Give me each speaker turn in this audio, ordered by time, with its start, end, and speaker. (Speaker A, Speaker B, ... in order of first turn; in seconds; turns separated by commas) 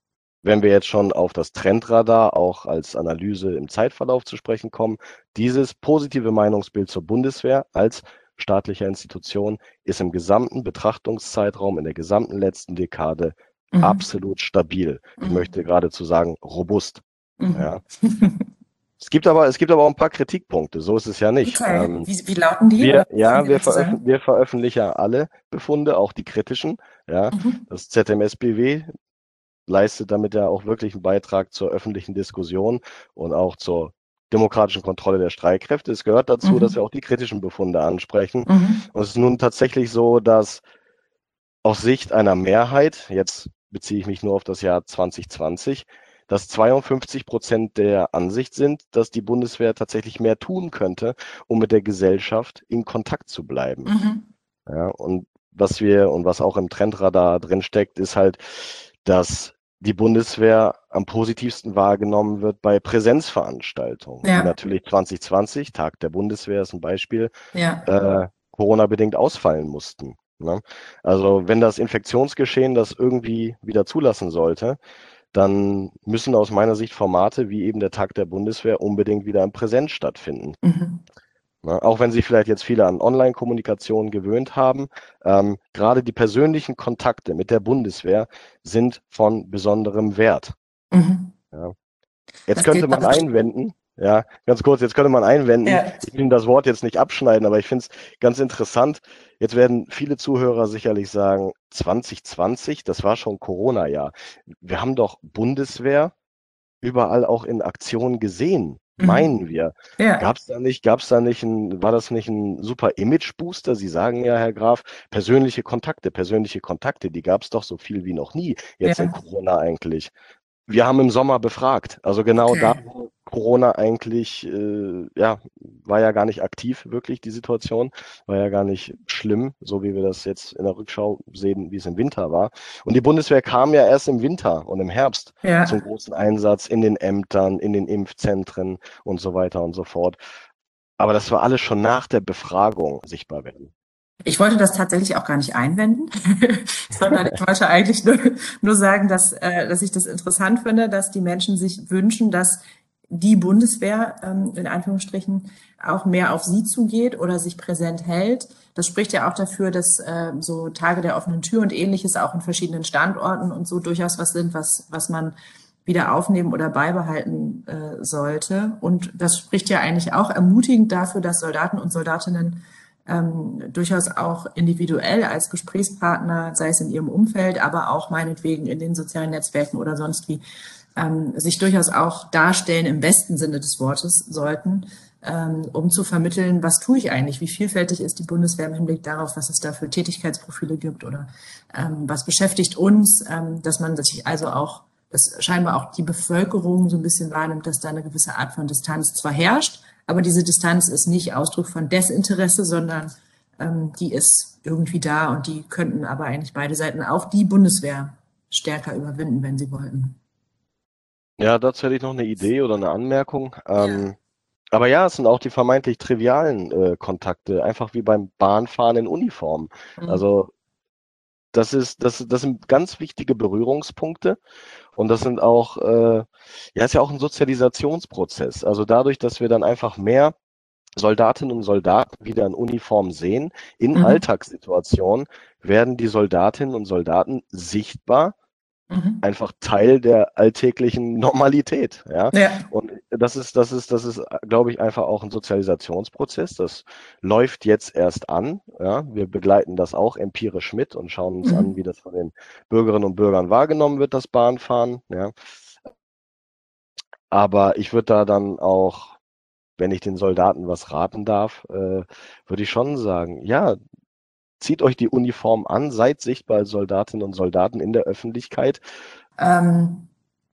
Speaker A: 0.4-17.8, Speaker B: 13.7-14.0, Speaker B: 15.2-15.5, Speaker B: 17.4-18.4, Speaker A: 19.0-22.1, Speaker B: 21.4-24.0, Speaker A: 22.8-28.9, Speaker B: 27.3-27.6, Speaker A: 29.7-40.6, Speaker B: 36.4-36.7, Speaker B: 38.5-38.8, Speaker A: 41.6-53.9, Speaker B: 53.9-54.2, Speaker A: 54.7-67.3, Speaker B: 64.2-64.5, Speaker B: 67.5-67.8, Speaker A: 67.8-74.8, Speaker A: 75.3-80.6, Speaker B: 80.6-81.0, Speaker A: 81.6-90.5, Speaker B: 90.9-91.3, Speaker A: 92.5-106.1, Speaker B: 92.5-93.2, Speaker B: 95.6-96.0, Speaker A: 106.8-120.1, Speaker B: 109.0-109.3, Speaker B: 110.0-110.2, Speaker B: 118.8-119.1, Speaker A: 120.7-140.2, Speaker B: 122.5-122.8, Speaker B: 135.4-135.8, Speaker A: 141.0-143.7, Speaker B: 144.2-180.4, Speaker A: 147.0-147.3, Speaker B: 180.9-210.2, Speaker A: 211.4-214.2, Speaker B: 213.8-214.0, Speaker A: 214.7-220.5, Speaker A: 221.5-224.4, Speaker A: 224.9-230.3, Speaker A: 231.0-238.3, Speaker B: 233.9-234.2, Speaker B: 238.9-239.2, Speaker A: 239.2-255.3, Speaker B: 242.3-242.6, Speaker B: 251.4-251.7, Speaker A: 257.3-259.1, Speaker A: 259.8-263.8, Speaker A: 264.6-268.8, Speaker B: 269.4-270.1